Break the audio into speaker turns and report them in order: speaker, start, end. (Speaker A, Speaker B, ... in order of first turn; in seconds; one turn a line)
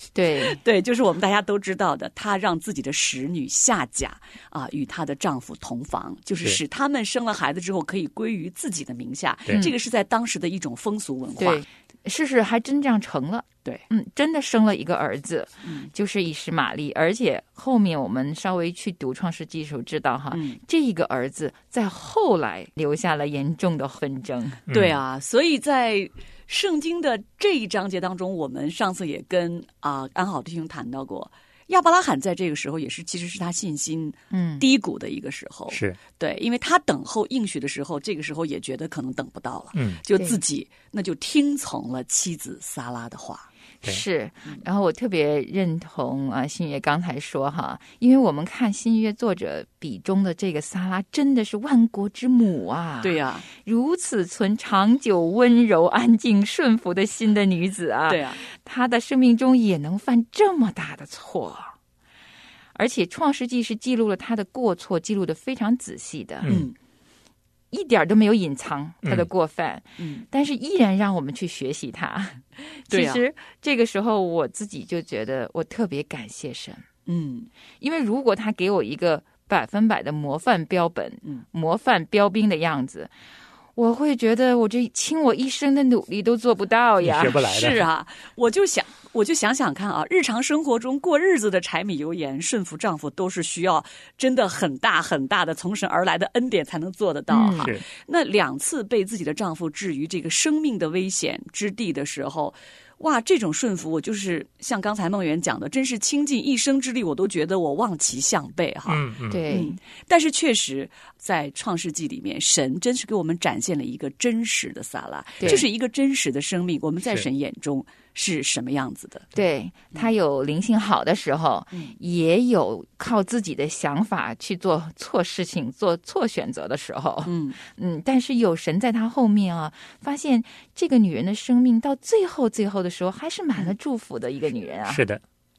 Speaker A: 0.1-0.6
Speaker B: 0.5-11.6
Speaker A: 11.4-24.6
Speaker B: 15.6-15.9
Speaker B: 20.3-20.6
Speaker C: 24.7-25.0
Speaker B: 24.7-43.5
Speaker A: 34.3-34.6
Speaker C: 35.7-36.0
Speaker C: 39.7-40.0
Speaker A: 43.8-61.7
Speaker B: 53.0-53.5
Speaker B: 58.1-58.4
Speaker A: 62.7-66.5
Speaker C: 66.4-66.7
Speaker B: 66.5-66.7
Speaker A: 67.7-76.8
Speaker B: 70.0-70.2
Speaker B: 72.9-73.2
Speaker B: 77.0-77.5
Speaker A: 77.8-83.1
Speaker A: 83.8-87.4
Speaker C: 87.0-87.8
Speaker B: 87.4-119.3
Speaker A: 97.3-97.8
Speaker C: 108.9-109.5
Speaker A: 109.3-109.8
Speaker A: 115.4-115.7
Speaker A: 119.3-135.0
Speaker B: 127.2-127.6
Speaker C: 134.9-135.2